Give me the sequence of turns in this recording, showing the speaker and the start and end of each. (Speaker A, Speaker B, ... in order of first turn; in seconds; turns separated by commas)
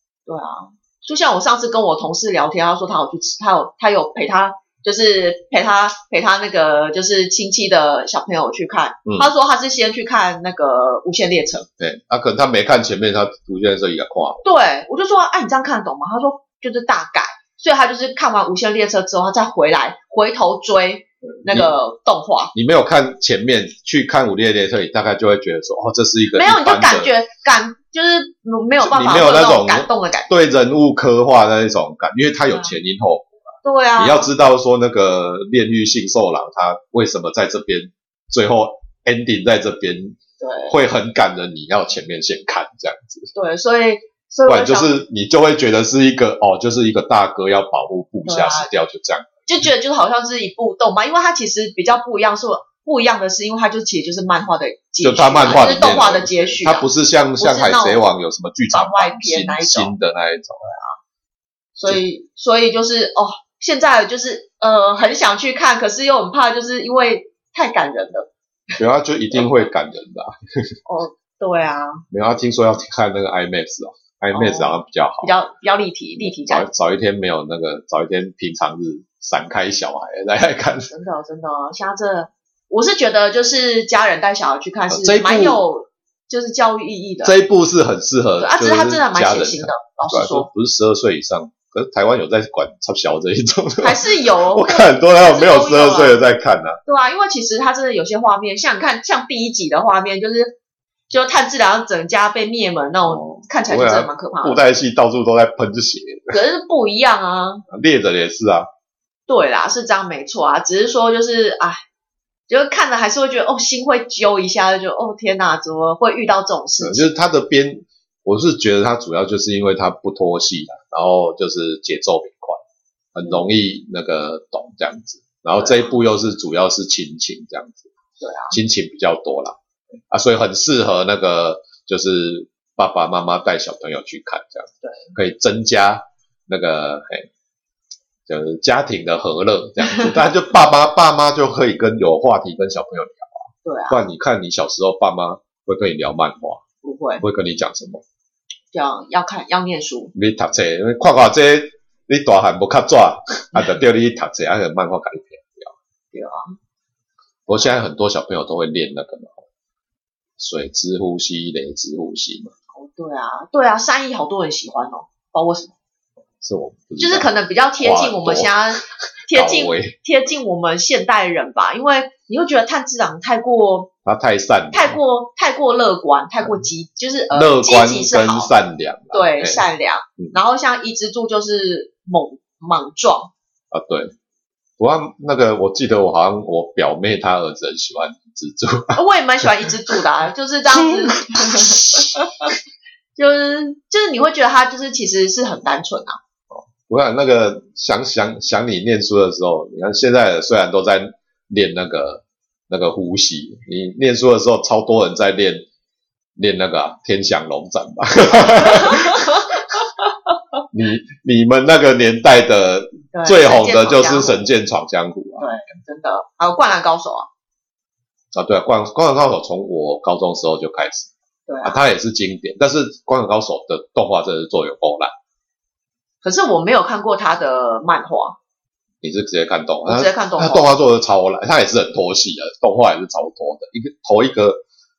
Speaker A: 0.3-11.7, Speaker B: 11.8-14.4, Speaker A: 14.4-22.5, Speaker B: 21.5-21.7, Speaker B: 22.5-27.1, Speaker A: 26.4-30.3, Speaker B: 28.8-40.2, Speaker A: 33.6-34.3, Speaker A: 40.4-40.8, Speaker B: 40.7-43.3, Speaker A: 43.4-45.0, Speaker B: 44.5-49.3, Speaker A: 48.3-48.7, Speaker A: 49.5-58.0, Speaker B: 55.0-60.7, Speaker A: 58.7-59.9, Speaker A: 61.8-68.3, Speaker B: 68.8-70.7, Speaker A: 69.3-69.6, Speaker A: 70.9-72.0, Speaker B: 72.1-75.4, Speaker A: 74.3-76.7, Speaker B: 76.2-80.9, Speaker A: 80.9-87.4, Speaker B: 84.9-85.6, Speaker B: 87.2-96.8, Speaker A: 88.4-90.5, Speaker A: 93.8-96.2, Speaker A: 96.9-100.6, Speaker A: 101.1-104.6, Speaker B: 103.1-106.4, Speaker A: 106.3-107.6, Speaker B: 107.7-108.7, Speaker A: 109.3-111.8, Speaker A: 112.5-117.1, Speaker B: 116.8-122.6, Speaker B: 123.2-127.9, Speaker A: 125.6-125.9, Speaker A: 128.2-128.6, Speaker B: 128.5-129.6, Speaker B: 130.1-137.3, Speaker A: 134.8-135.1, Speaker B: 138.3-146.6, Speaker A: 139.8-140.1, Speaker A: 143.7-144.0, Speaker A: 146.8-147.2, Speaker B: 147.2-148.0, Speaker A: 148.7-150.1, Speaker B: 150.1-155.7, Speaker A: 156.1-156.5, Speaker B: 157.5-159.4, Speaker B: 160.4-162.5, Speaker A: 162.8-165.7, Speaker B: 166.4-168.8, Speaker A: 167.0-173.9, Speaker B: 169.3-169.9, Speaker B: 174.1-175.0, Speaker A: 174.7-178.5, Speaker B: 177.3-179.6, Speaker A: 179.1-183.3, Speaker B: 183.7-184.1, Speaker B: 184.8-189.9, Speaker A: 188.9-192.5, Speaker B: 190.7-192.1, Speaker A: 193.2-196.2, Speaker B: 196.5-205.7, Speaker B: 206.4-209.6, Speaker A: 208.7-209.3, Speaker B: 210.7-215.5, Speaker A: 213.1-214.4, Speaker A: 215.4-217.3, Speaker B: 218.3-221.1, Speaker A: 221.5-221.8, Speaker B: 221.6-225.1, Speaker A: 226.2-228.4, Speaker B: 229.0-234.6, Speaker A: 229.9-230.8